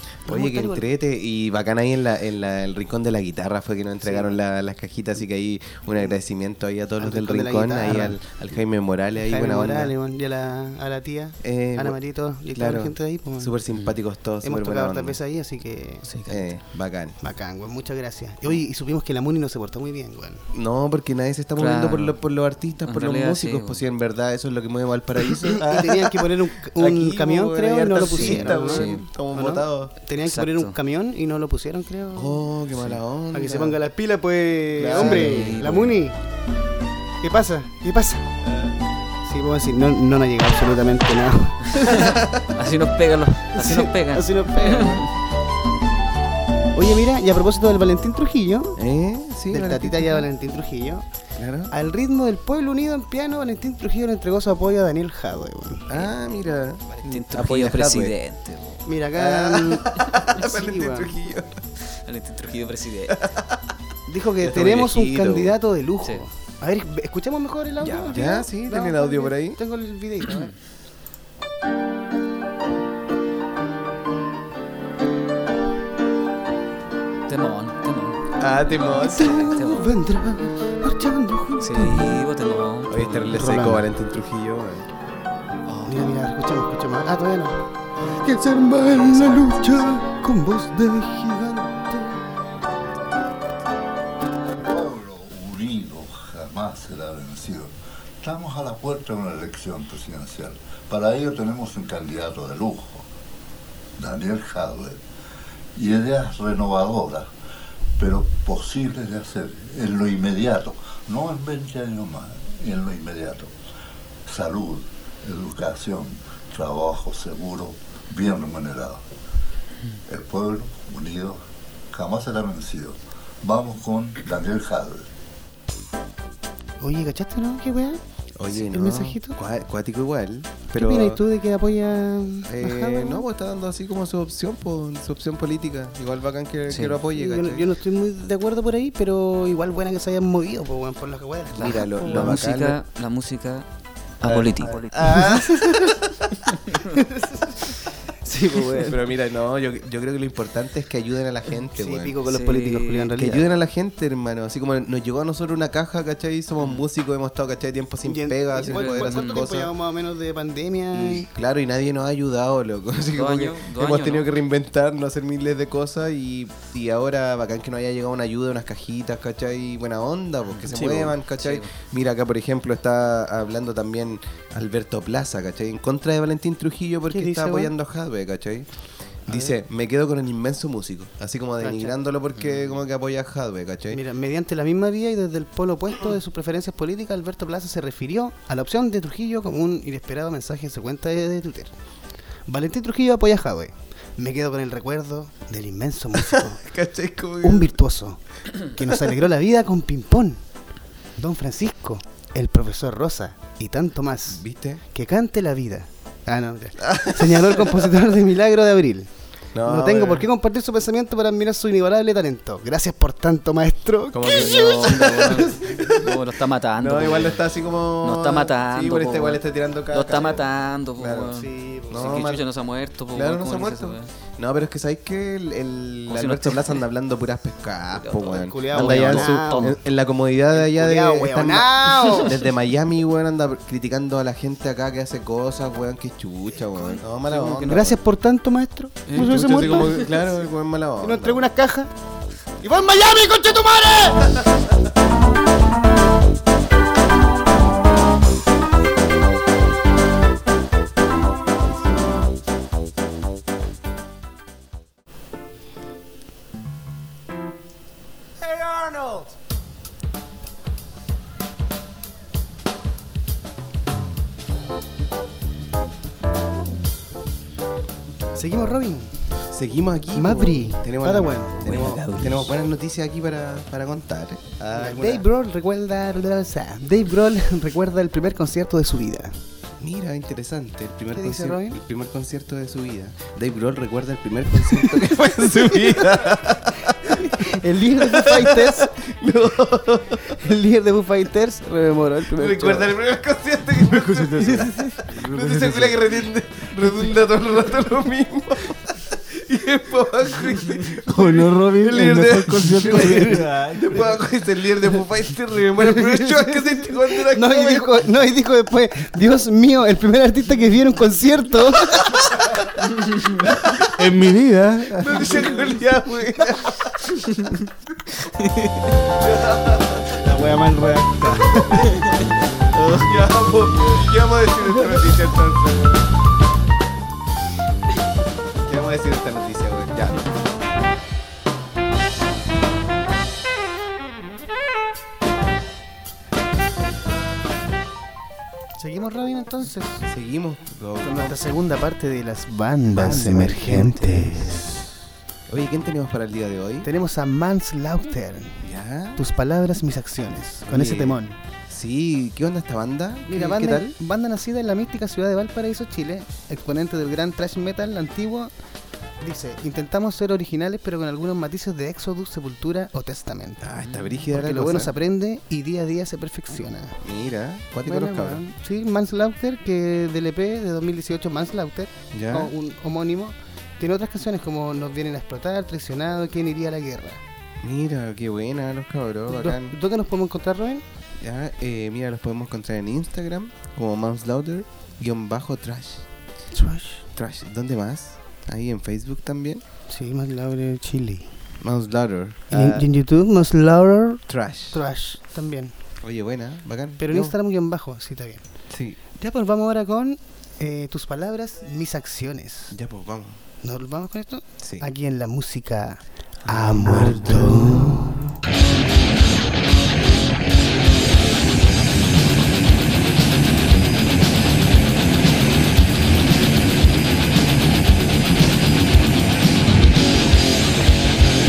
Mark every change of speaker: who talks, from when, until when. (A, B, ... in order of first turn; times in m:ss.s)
0:00.3-0:00.9 A
0:00.3-0:09.9 B
0:04.0-0:04.3 A
0:07.0-0:08.2 A
0:09.2-0:13.6 A
0:11.4-0:12.0 B
0:12.5-0:15.2 B
0:14.4-0:16.1 A
0:16.1-0:16.6 C
0:16.3-0:17.2 B
0:17.2-0:20.5 A
0:20.5-0:29.9 B
0:21.6-0:22.2 C
0:22.8-0:23.8 C
0:25.5-0:32.5 A
0:28.1-0:29.0 C
0:30.2-0:30.8 C
0:32.2-0:33.8 B
0:33.3-0:36.2 A
0:34.8-0:35.7 B
0:34.9-0:35.9 C
0:37.2-0:38.3 A
0:38.4-0:38.7 B
0:39.2-0:42.2 A
0:42.5-0:45.1 C
0:43.6-0:45.0 A
0:44.7-0:45.0 B
0:46.8-0:48.8 A
0:48.8-0:50.3 B
0:49.5-0:51.0 A
0:51.4-0:51.7 B
0:51.7-0:56.0 A
0:55.9-0:58.2 B
0:57.0-0:58.8 C
0:58.9-1:01.2 A
0:59.2-1:01.6 B
1:02.1-1:03.2 C
1:03.1-1:03.6 B
1:04.1-1:10.5 A
1:04.4-1:05.6 B
1:07.8-1:09.6 B
1:10.2-1:10.5 C
1:17.3-1:18.2 C
1:18.4-1:19.5 B
1:19.0-1:19.9 C
1:19.0-1:22.2 A
1:21.6-1:23.4 C
1:22.9-1:24.9 B
1:23.3-1:23.8 A
1:25.7-1:26.0 C
1:25.9-1:27.6 A
1:28.2-1:32.2 A
1:28.9-1:30.0 C
1:34.6-1:43.1 D
1:44.0-1:45.0 D
1:45.8-1:47.3 D
1:48.0-1:53.5 D
1:54.3-1:59.0 D
2:00.1-2:05.1 D
2:06.8-2:09.4 A
2:08.4-2:11.2 B
2:10.7-2:13.2 A
2:12.4-2:17.7 B
2:16.7-2:17.0 C
2:17.1-2:22.4 A
2:21.6-2:22.8 B
2:21.6-2:23.7 C
2:24.2-2:25.0 C
2:24.2-2:26.1 B
2:24.8-2:26.0 A
2:26.9-2:27.7 A
2:28.3-2:29.0 A
2:28.8-2:32.2 B
2:31.8-2:33.5 A
2:32.3-2:33.1 C
2:33.2-2:39.7 B
2:38.0-2:41.3 A
2:38.6-2:39.5 C
2:40.9-2:58.7 B
2:43.1-2:44.3 C
2:50.6-2:51.7 C
2:57.1-2:57.7 A
2:59.3-3:04.0 B
2:59.3-2:59.6 A
3:01.6-3:02.0 A
3:03.9-3:11.7 A
3:12.5-3:16.6 A
3:16.2-3:17.8 B
3:17.4-3:20.4 A
3:21.2-3:29.1 A
3:24.3-3:24.8 B
3:26.8-3:27.9 B
3:29.5-3:30.3 B
3:29.6-3:35.3 A
3:34.1-3:36.1 B
3:34.3-3:37.5 C
3:36.8-3:42.5 B
3:38.0-3:44.1 C
3:41.4-3:42.3 A
3:43.1-3:58.0 B
3:46.1-3:46.8 C
3:48.0-3:49.8 C
3:48.3-3:49.8 A
3:50.6-3:52.3 A
3:56.9-3:58.0 C
3:57.7-4:00.2 A
3:59.1-4:00.0 C
3:59.1-4:01.5 B
4:01.0-4:01.9 A
4:02.6-4:04.5 A
4:28.4-4:29.2 A
4:29.5-4:35.2 B
4:30.2-4:32.0 A
4:34.7-4:39.4 A
4:39.8-4:50.4 B
4:41.1-4:41.8 A
4:45.0-4:46.4 A
4:47.0-4:49.0 A
4:50.3-4:52.9 A
4:52.3-5:08.0 B
4:54.0-4:56.0 E
5:01.0-5:04.2 E
5:05.9-5:12.2 A
5:11.9-5:12.6 B
5:13.4-5:13.9 B
5:14.0-5:15.4 E
5:15.0-5:17.0 B
5:15.0-5:15.7 A
5:19.2-5:20.3 B
5:20.2-5:21.8 E
5:22.7-5:26.0 B
5:28.6-5:30.2 B
5:38.8-5:40.0 A
5:40.1-5:41.4 B
5:41.0-5:44.7 A
5:42.9-5:44.6 B
5:45.5-5:46.9 B
5:46.8-5:48.6 A
5:48.6-5:49.2 B
5:49.2-5:51.4 A
5:50.7-5:53.9 B
5:53.3-5:58.5 A
5:59.2-6:03.7 A
6:03.6-6:04.9 B
6:04.3-6:07.0 A
6:07.0-6:08.4 B
6:07.8-6:17.2 A
6:12.1-6:12.5 B
6:17.6-6:19.8 B
6:19.3-6:20.8 A
6:21.2-6:26.0 B
6:26.5-6:27.0 A
6:27.2-6:29.6 B
6:29.9-6:31.3 A
6:31.6-6:32.9 B
6:32.5-6:35.7 A
6:34.3-6:34.8 B
6:36.0-6:37.4 B
6:37.0-6:38.4 A
6:38.7-6:39.0 B
6:39.2-6:42.8 A
6:42.7-6:43.4 B
6:43.6-6:48.1 A
6:44.6-6:44.9 B
6:46.5-6:48.0 B